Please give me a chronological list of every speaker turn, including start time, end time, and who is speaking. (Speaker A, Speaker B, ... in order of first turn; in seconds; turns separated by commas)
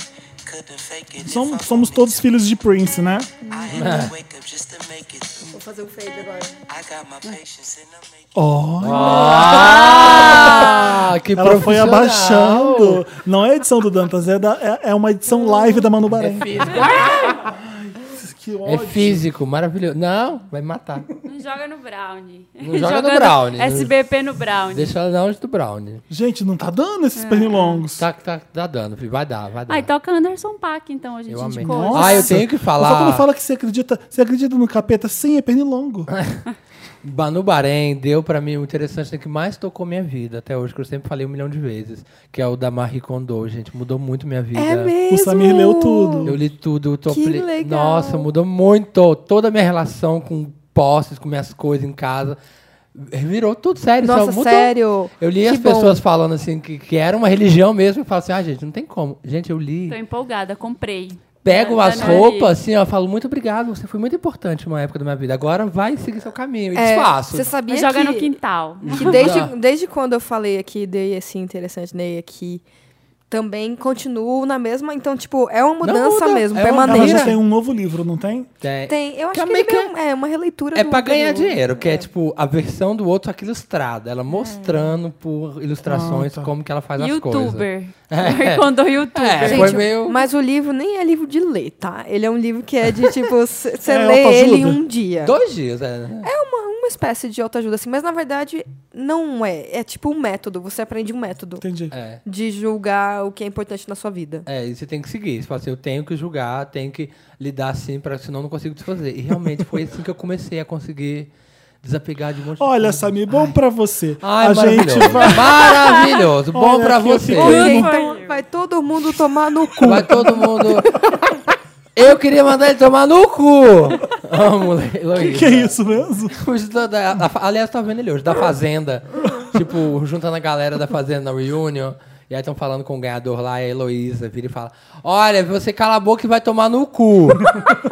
Speaker A: 0.5-2.2, Speaker B: 1.2-3.3, Speaker C: 3.5-4.1, Speaker A: 3.5-5.5, Speaker D: 3.7-4.1, Speaker E: 5.5-6.5, Speaker A: 6.7-8.1, Speaker B: 8.3-16.9, Speaker D: 8.8-13.0, Speaker C: 9.5-10.8, Speaker D: 16.1-17.4, Speaker C: 16.7-17.2, Speaker B: 17.4-19.2, Speaker D: 18.6-21.1, Speaker C: 21.2-24.9, Speaker D: 22.6-23.9, Speaker D: 24.7-26.0, Speaker B: 26.1-28.0, Speaker C: 27.1-27.8, Speaker D: 27.9-29.9, Speaker C: 29.7-32.3, Speaker D: 31.3-33.2, Speaker B: 31.6-36.1, Speaker D: 36.1-36.4, Speaker D: 37.0-44.9, Speaker E: 44.5-46.3, Speaker B: 45.1-46.4, Speaker D: 46.2-52.4, Speaker E: 47.1-48.3, Speaker D: 52.9-60.0, Speaker E: 54.0-56.0, Speaker C: 59.9-62.5, Speaker D: 61.4-67.5, Speaker E: 61.9-62.2, Speaker E: 66.7-68.3, Speaker C: 67.7-69.3, Speaker D: 68.8-69.5, Speaker E: 68.9-72.6, Speaker E: 73.3-77.3, Speaker D: 75.8-77.3, Speaker B: 76.8-78.5, Speaker D: 78.6-79.9, Speaker E: 78.9-82.1, Speaker D: 80.7-90.2, Speaker B: 85.8-86.5, Speaker C: 87.0-89.8, Speaker E: 89.4-95.3, Speaker B: 93.8-94.8, Speaker D: 95.2-96.3, Speaker E: 96.2-101.6, Speaker B: 101.6-101.9, Speaker D: 101.9-102.2, Speaker E: 102.2-104.5, Speaker D: 104.5-111.3, Speaker D: 111.8-113.5, Speaker B: 112.6-115.9, Speaker D: 114.2-117.8, Speaker C: 115.8-116.1, Speaker B: 116.5-117.9, Speaker E: 117.3-120.3, Speaker C: 117.3-118.4, Speaker B: 119.8-120.8, Speaker D: 119.8-121.0, Speaker D: 122.0-125.7, Speaker B: 125.2-126.4, Speaker D: 126.3-137.8